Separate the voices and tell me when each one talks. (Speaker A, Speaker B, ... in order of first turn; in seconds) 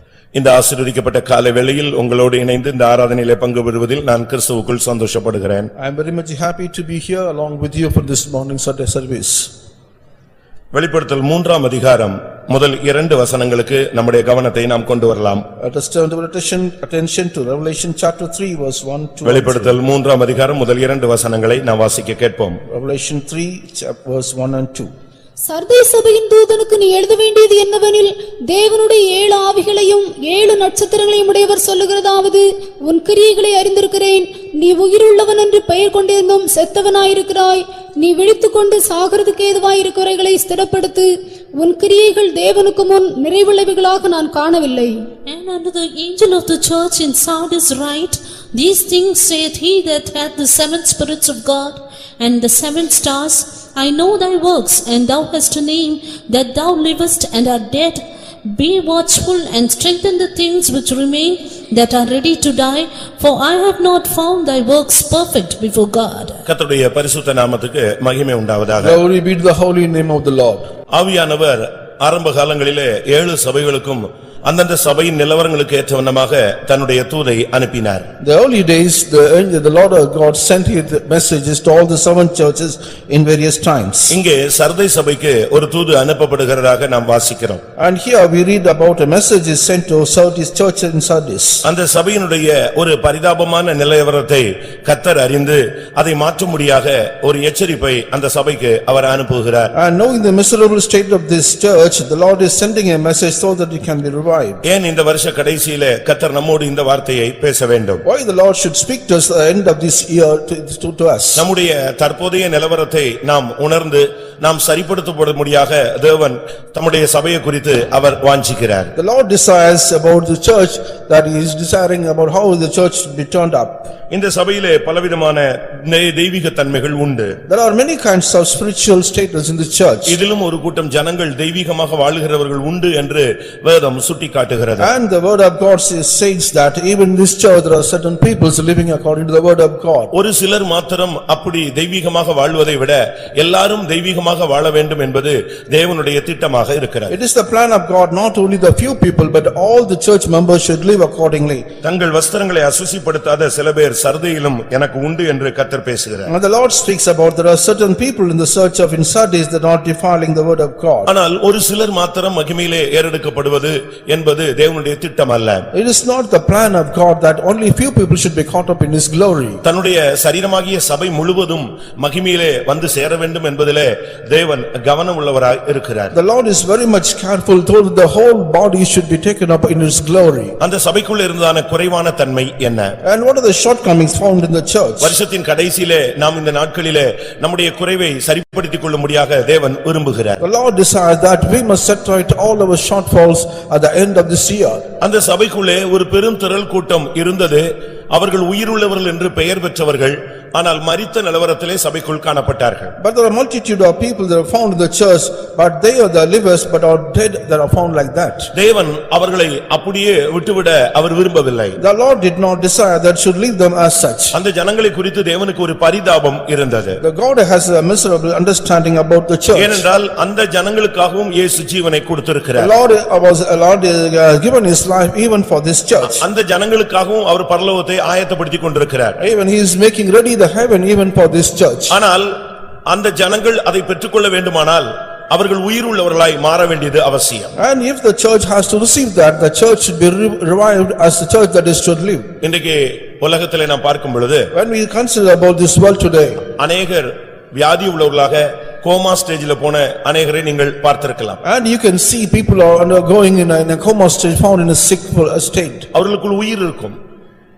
Speaker A: 0.3-5.7, 10.7-15.4, 19.2-22.6, 66.5-69.0, 70.9-78.1, 84.1-87.6, 91.6-99.7, 104.6-108.0, 111.3-118.9, 124.1-127.3, 130.1-134.9, 140.1-147.1, 151.8-156.3, 161.1-165.6, 169.6-176.1, 180.6-182.9, 185.0-190.4, 195.0-202.9, 208.5-211.8, 214.3-217.0, 219.5-222.7, 226.0-229.2, 231.9-232.3, 232.9-237.5, 242.4-244.5, 246.6-251.4, 255.9-256.9
Speaker B: 5.8-9.5, 15.6-19.8, 22.7-24.9, 68.8-70.7, 78.2-84.2, 87.8-91.6, 99.7-104.6, 108.0-111.5, 118.9-123.9, 127.5-130.2, 134.8-140.1, 147.1-151.7, 156.2-161.1, 165.7-169.6, 176.1-180.6, 183.0-185.2, 190.4-194.8, 203.0-208.5, 211.8-214.3, 217.0-219.8, 222.6-226.2, 229.2-231.9, 237.6-242.3, 244.5-246.5, 251.4-255.9
Speaker C: 25.5-45.0
Speaker D: 45.2-66.4